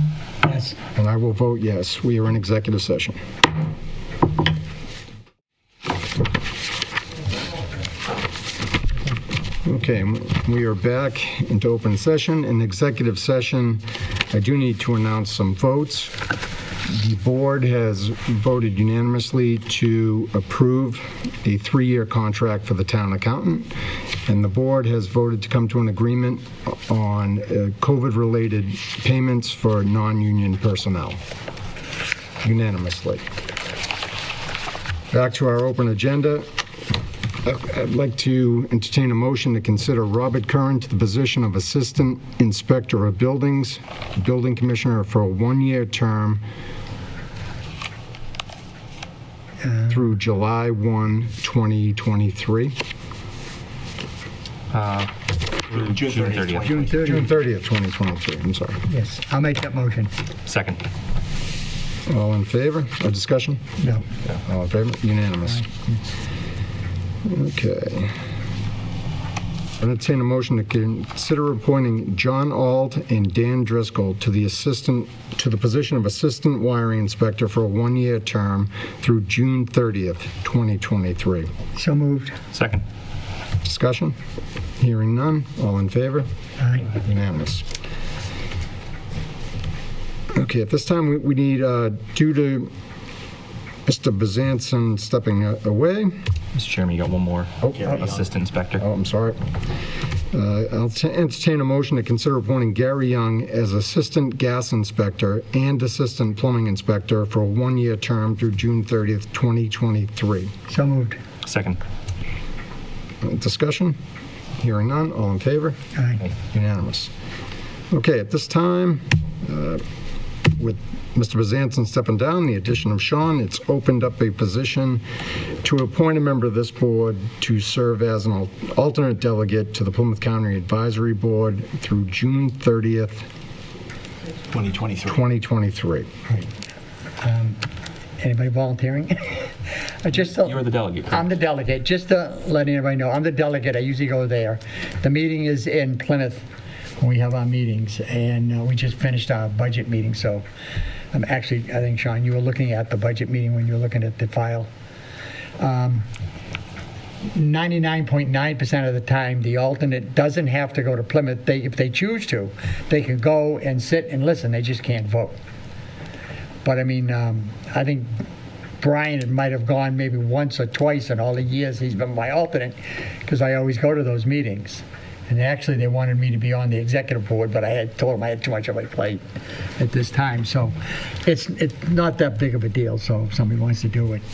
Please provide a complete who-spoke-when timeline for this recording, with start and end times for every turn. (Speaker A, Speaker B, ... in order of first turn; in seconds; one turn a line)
Speaker A: 0.4-0.8
Speaker B: 0.9-3.1
Speaker B: 9.6-16.1
Speaker B: 16.9-23.7
Speaker B: 24.2-31.2
Speaker B: 32.4-33.2
Speaker B: 35.1-36.5
Speaker B: 37.4-46.4
Speaker A: 49.6-49.9
Speaker B: 49.9-52.8
Speaker C: 54.7-55.1
Speaker C: 55.6-56.7
Speaker D: 55.7-56.9
Speaker A: 56.5-57.3
Speaker B: 57.0-58.8
Speaker A: 58.9-60.1
Speaker C: 60.5-60.8
Speaker B: 62.1-63.6
Speaker A: 63.8-64.1
Speaker B: 64.4-65.6
Speaker A: 65.5-65.9
Speaker B: 67.2-68.1
Speaker B: 69.8-81.5
Speaker A: 81.7-82.4
Speaker C: 82.5-82.8
Speaker B: 83.6-84.1
Speaker B: 84.8-86.2
Speaker A: 86.6-86.9
Speaker B: 86.9-87.6
Speaker B: 90.3-92.7
Speaker B: 93.8-96.1
Speaker C: 96.5-98.8
Speaker B: 97.6-97.9
Speaker D: 97.9-98.2
Speaker B: 98.8-99.4
Speaker B: 100.3-110.5
Speaker A: 110.7-111.2
Speaker C: 111.4-111.8
Speaker B: 113.2-114.0
Speaker B: 114.6-117.1
Speaker A: 115.9-116.2
Speaker B: 117.9-119.8
Speaker B: 120.6-125.0
Speaker B: 125.6-133.2
Speaker D: 134.5-135.2
Speaker B: 135.0-136.1
Speaker A: 137.2-137.6
Speaker A: 138.2-146.5
Speaker C: 140.3-141.2
Speaker A: 147.0-150.4
Speaker A: 151.1-154.7
Speaker A: 155.6-156.1
Speaker A: 157.3-165.4
Speaker A: 166.6-168.1
Speaker A: 168.8-179.2
Speaker A: 179.8-184.2